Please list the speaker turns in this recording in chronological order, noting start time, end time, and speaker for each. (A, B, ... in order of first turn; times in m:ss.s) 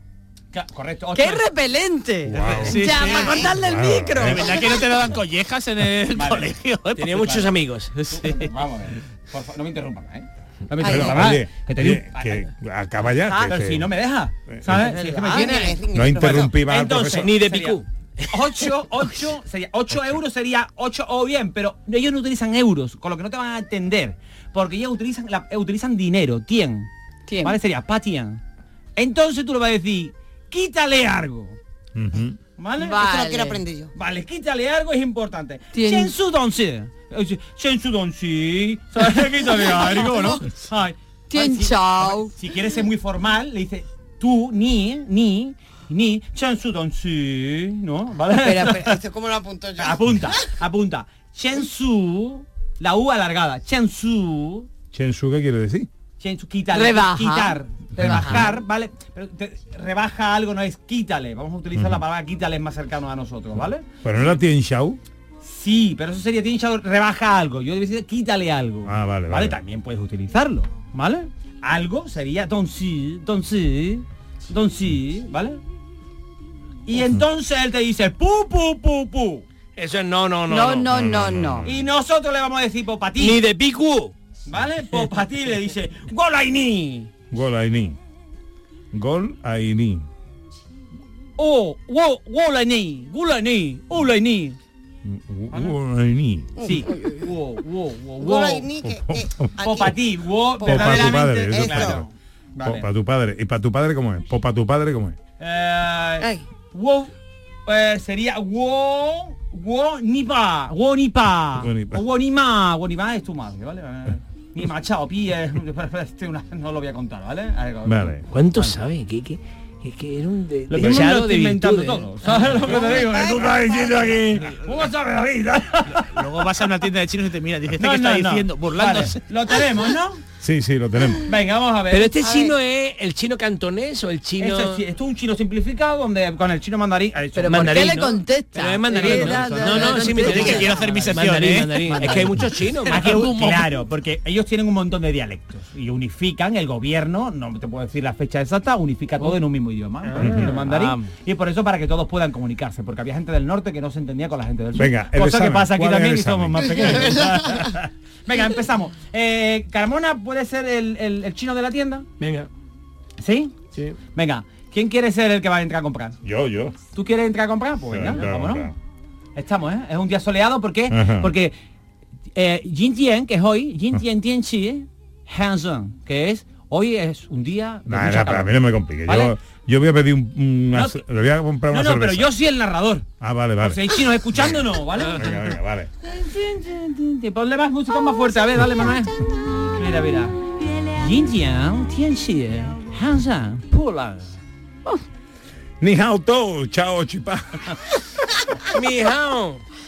0:00.5-0:01.5 A
0:01.1-0:04.4 B
0:02.2-0:02.9 C
0:02.4-0:03.5 D
0:03.0-0:03.5 E
0:03.5-0:04.5 C
0:04.2-0:07.4 D
0:06.1-0:06.6 A
0:07.0-0:07.9 F
0:07.9-0:08.5 D
0:08.0-0:12.5 A
0:10.8-0:13.9 C
0:10.8-0:11.2 E
0:13.1-0:26.9 A
0:14.5-0:14.9 C
0:14.8-0:16.6 E
0:14.9-0:15.5 D
0:15.9-0:17.3 C
0:17.1-0:18.7 F
0:27.3-0:27.6 B
0:27.4-0:28.4 A
0:29.0-0:31.6 A
0:31.9-0:32.4 C
0:32.6-0:33.0 A
0:32.8-0:33.6 B
0:32.8-0:33.9 E
0:33.9-0:49.0 A
0:35.7-0:36.1 B
0:39.9-0:40.3 B
0:41.3-0:42.3 B
0:48.4-0:50.4 E
0:49.8-0:54.7 A
0:54.9-0:55.9 C
0:56.2-1:04.0 A
0:56.7-0:58.5 B
0:58.0-0:58.5 C
1:04.0-1:05.0 C
1:05.4-1:15.6 A
1:08.8-1:09.6 C
1:16.9-1:19.4 A
1:19.8-1:20.9 F
1:20.5-1:21.7 B
1:20.9-1:21.8 C
1:21.6-1:23.4 A
1:23.2-1:24.1 F
1:24.5-1:27.1 A
1:27.3-1:28.0 C
1:28.9-1:30.0 C
1:31.4-1:34.6 A
1:35.0-1:36.6 C
1:36.6-1:37.3 E
1:36.6-1:38.7 A
1:38.2-1:40.0 E
1:38.8-1:39.6 C
1:39.6-1:42.9 A
1:40.6-1:42.0 E
1:40.6-1:42.0 C
1:42.6-1:45.2 C
1:45.4-1:47.1 A
1:47.6-1:58.7 A
1:51.6-1:52.0 C
1:57.8-1:58.2 C
1:58.3-2:02.7 F
2:00.7-2:06.4 A
2:00.8-2:01.1 C
2:02.7-2:04.1 E
2:05.9-2:09.2 D
2:07.8-2:10.2 A
2:10.4-2:11.3 C
2:11.2-2:12.2 A
2:11.9-2:14.8 F
2:12.2-2:12.6 E
2:14.4-2:18.1 A
2:17.4-2:20.7 B
2:17.5-2:23.5 F
2:18.9-2:21.3 A
2:20.2-2:22.1 D
2:21.8-2:42.1 A
2:22.9-2:23.7 D
2:30.2-2:30.6 C
2:30.2-2:30.8 F
2:34.8-2:37.2 C
2:42.2-2:42.5 F
2:43.2-2:43.5 A
2:44.1-2:46.2 A
2:46.2-2:46.8 C
2:46.9-2:48.7 A
2:47.9-2:48.7 C
2:49.3-2:51.5 A
2:50.9-2:51.3 C
2:52.3-2:58.5 A
2:57.9-3:02.3 C
2:59.0-2:59.3 A
3:00.7-3:01.0 A
3:01.7-3:10.4 A
3:03.2-3:05.9 C
3:10.9-3:14.4 A
3:15.8-3:17.7 C
3:18.7-3:19.6 F